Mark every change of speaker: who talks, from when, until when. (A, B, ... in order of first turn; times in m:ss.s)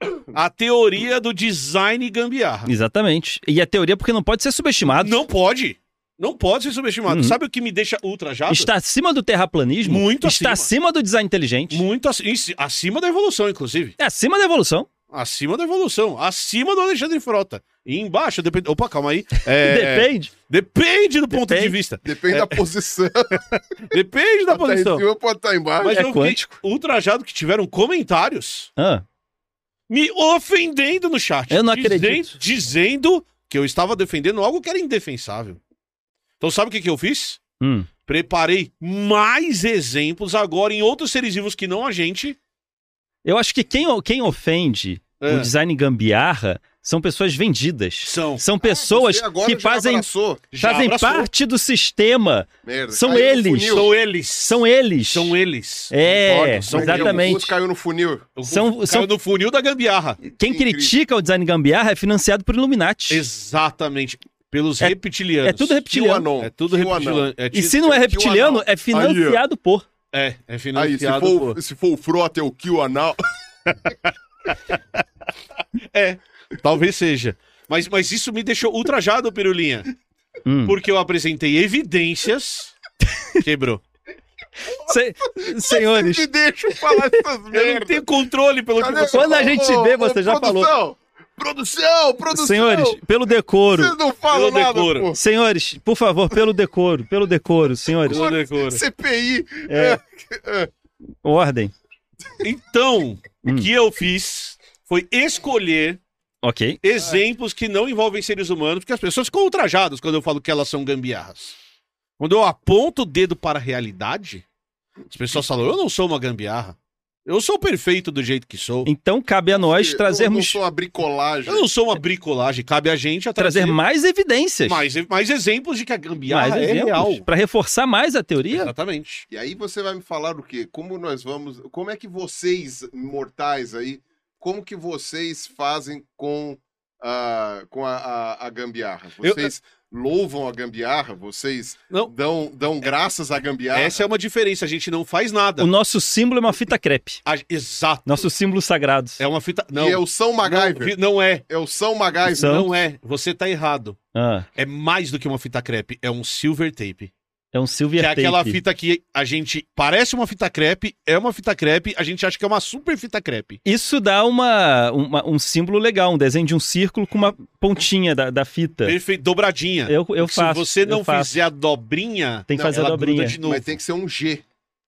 0:00.3-0:02.7 A
0:02.7-0:05.2 B
0:05.0-0:08.7 A
0:07.1-0:07.4 B
0:08.5-0:11.8 B
0:09.8-0:10.7 A
0:11.7-0:14.0 A
0:14.0-0:14.9 B
0:15.1-0:22.6 A
0:19.5-0:20.3 B
0:21.3-0:21.8 B
0:22.0-0:24.0 C
0:23.9-0:25.1 A
0:24.5-0:26.1 C
0:25.8-0:28.7 A
0:25.8-0:26.6 B
0:28.8-0:29.0 B
0:29.9-0:35.6 A
0:31.5-0:32.4 B
0:36.4-0:37.4 A
0:37.6-0:37.9 B
0:38.1-0:42.4 A
0:43.2-0:50.1 B
0:45.2-0:45.5 A
0:48.0-0:48.4 A
0:48.6-0:50.4 C
0:50.5-0:51.3 A
0:50.6-0:55.4 B
0:52.6-0:53.9 C
0:53.7-0:57.4 A
0:55.9-0:57.5 B
0:56.7-0:58.3 C
0:58.4-1:00.2 A
0:58.5-0:59.1 B
1:00.2-1:03.3 B
1:00.4-1:01.0 C
1:03.1-1:05.8 A
1:04.8-1:06.3 B
1:05.9-1:07.3 C
1:06.4-1:08.0 A
1:07.5-1:09.9 B
1:07.9-1:09.4 C
1:10.1-1:11.6 A
1:10.8-1:13.2 C
1:13.7-1:14.8 A
1:15.9-1:19.9 A
1:20.5-1:20.8 B
1:20.7-1:22.8 A
1:23.4-1:23.8 A
1:24.7-1:28.1 C
1:24.8-1:27.2 B
1:27.5-1:29.6 A
1:28.8-1:33.0 C
1:29.1-1:30.7 B
1:32.3-1:34.0 B
1:33.7-1:35.2 C
1:34.3-1:35.1 A
1:35.2-1:38.2 B
1:38.1-1:38.8 A
1:38.1-1:40.7 C
1:39.7-1:40.0 B
1:41.2-1:41.7 B
1:42.4-1:46.0 A
1:43.4-1:43.7 B
1:46.4-1:46.8 B
1:46.8-1:51.6 A
1:52.2-1:54.4 A
1:55.1-1:58.9 A
1:58.9-2:00.6 B
1:59.5-2:01.7 C
2:01.5-2:03.8 A
2:03.4-2:04.9 B
2:04.7-2:07.2 A
2:06.3-2:08.7 B
2:08.5-2:09.3 A
2:09.3-2:24.1 C
2:19.2-2:19.5 A
2:23.7-2:25.7 A
2:25.6-2:27.2 B
2:27.2-2:28.2 A
2:28.1-2:29.2 B
2:29.2-2:31.4 A
2:29.7-2:31.0 C
2:31.5-2:32.6 C
2:32.3-2:34.0 A
2:32.3-2:32.7 B
2:34.1-2:34.5 B
2:34.6-2:37.1 A
2:37.5-2:38.6 B
2:38.0-2:43.6 A
2:43.6-2:49.0 B
2:48.8-2:53.8 A
2:49.9-2:51.3 B
2:52.5-2:53.4 B
2:53.4-2:54.4 C